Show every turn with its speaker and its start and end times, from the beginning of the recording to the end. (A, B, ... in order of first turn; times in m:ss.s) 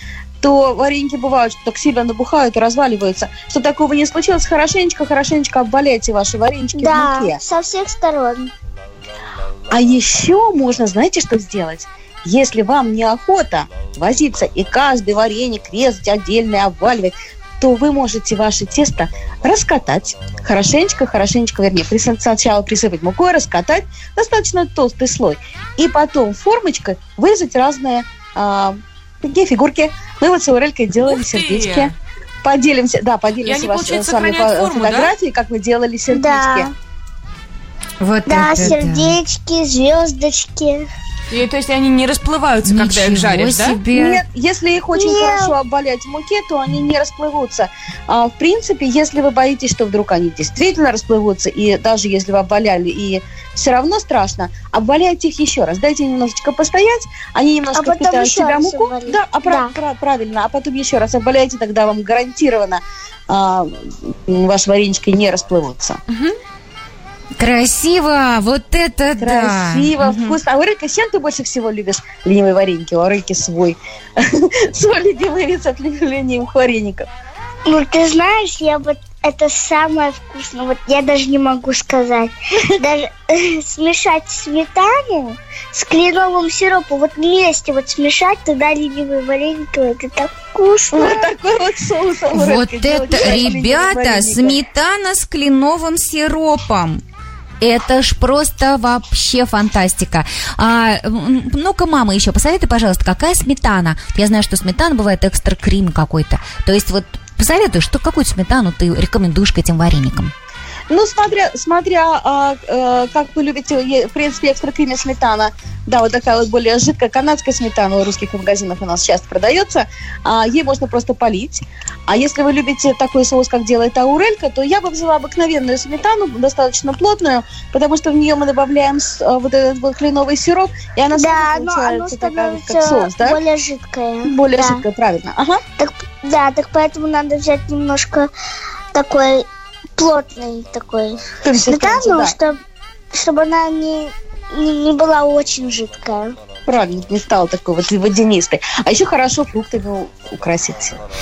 0:00.4-0:07.4 A
0:06.8-0:08.5 B
0:09.7-0:36.7 A
0:31.0-0:31.9 C
0:33.4-0:35.1 C
0:36.1-0:36.7 B
0:38.0-0:39.1 D
0:38.2-0:40.9 B
0:41.3-0:43.8 C
0:42.6-0:44.2 D
0:43.9-1:06.0 A
0:45.0-0:45.5 B
0:57.7-0:59.7 B
1:07.4-1:10.4 D
1:09.2-1:17.1 A
1:17.6-1:31.3 B
1:30.9-1:34.6 A
1:32.3-1:37.0 D
1:37.6-1:50.3 D
1:50.9-2:13.4 A
2:11.1-2:14.8 B
2:14.2-2:15.6 A
2:15.8-2:18.3 B
2:18.9-2:22.6 B
2:21.4-2:22.4 A
2:23.1-2:26.3 B
2:26.7-2:31.0 A